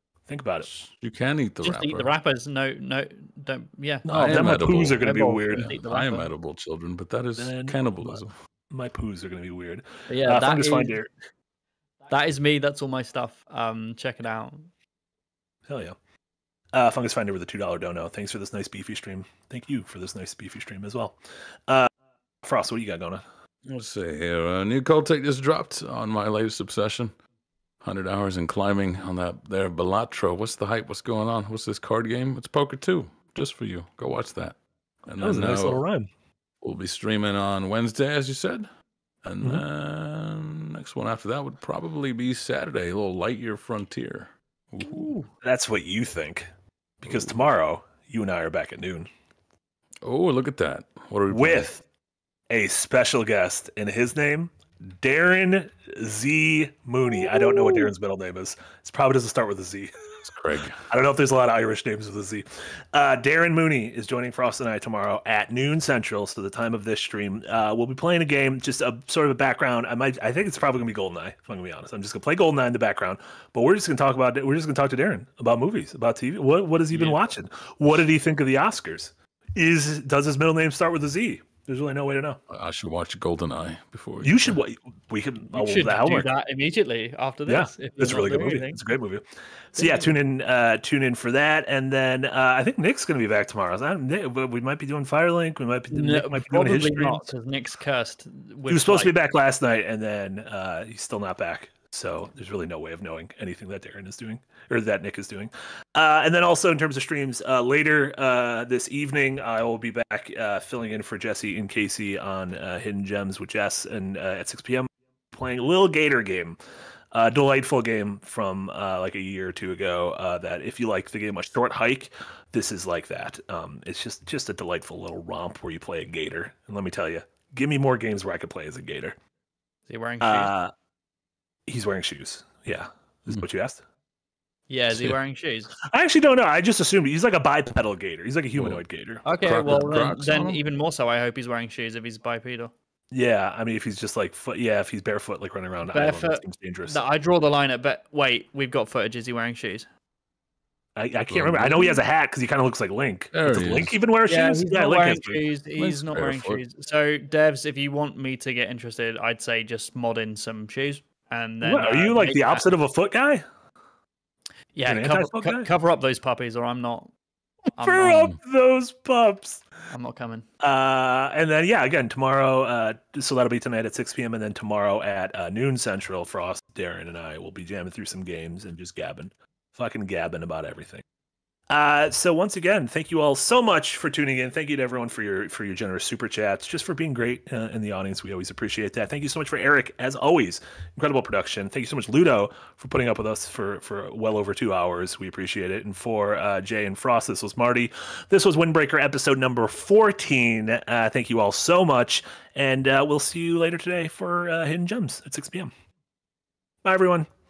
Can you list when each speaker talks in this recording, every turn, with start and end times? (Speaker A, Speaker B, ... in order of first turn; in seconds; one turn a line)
Speaker A: 0.3-0.7
Speaker B: 0.7-2.1
Speaker C: 1.6-6.3
Speaker A: 4.1-5.7
Speaker B: 4.1-8.3
Speaker A: 7.4-11.1
Speaker C: 10.1-10.9
Speaker C: 12.1-14.7
Speaker A: 15.7-16.0
Speaker A: 16.7-21.2
Speaker A: 22.4-23.2
Speaker B: 23.7-27.1
Speaker B: 27.8-35.8
Speaker A: 35.2-36.1
Speaker B: 36.6-38.7
Speaker B: 39.2-45.1
Speaker C: 45.0-45.2
Speaker A: 45.3-46.5
Speaker A: 47.0-49.1
Speaker B: 47.0-47.4
Speaker B: 50.0-51.7
Speaker A: 51.3-51.8
Speaker A: 52.5-59.9
Speaker B: 60.3-60.8
Speaker A: 60.9-82.4
Speaker B: 82.5-84.6
Speaker A: 84.2-86.3
Speaker C: 85.5-88.8
Speaker A: 87.5-89.2
Speaker C: 89.8-90.1
Speaker A: 89.8-97.3
Speaker C: 95.9-99.2
Speaker A: 98.7-116.6
Speaker A: 117.1-129.2
Speaker C: 129.9-130.5
Speaker A: 130.2-130.7
Speaker A: 131.7-133.8
Speaker C: 134.7-135.7
Speaker B: 134.9-135.2
Speaker A: 135.8-139.2
Speaker B: 138.6-138.8
Speaker C: 139.2-142.7
Speaker B: 139.4-140.6
Speaker A: 143.1-147.0
Speaker C: 145.9-149.9
Speaker A: 151.0-155.4
Speaker B: 151.3-152.0
Speaker B: 153.3-154.0
Speaker C: 154.3-162.7
Speaker B: 155.8-156.6
Speaker A: 161.6-163.4
Speaker C: 164.7-167.1
Speaker A: 164.9-165.7
Speaker C: 167.8-168.3
Speaker A: 167.8-169.6
Speaker B: 168.1-168.4
Speaker C: 169.9-170.5
Speaker A: 170.6-181.0
Speaker A: 181.7-205.7
Speaker A: 206.8-207.3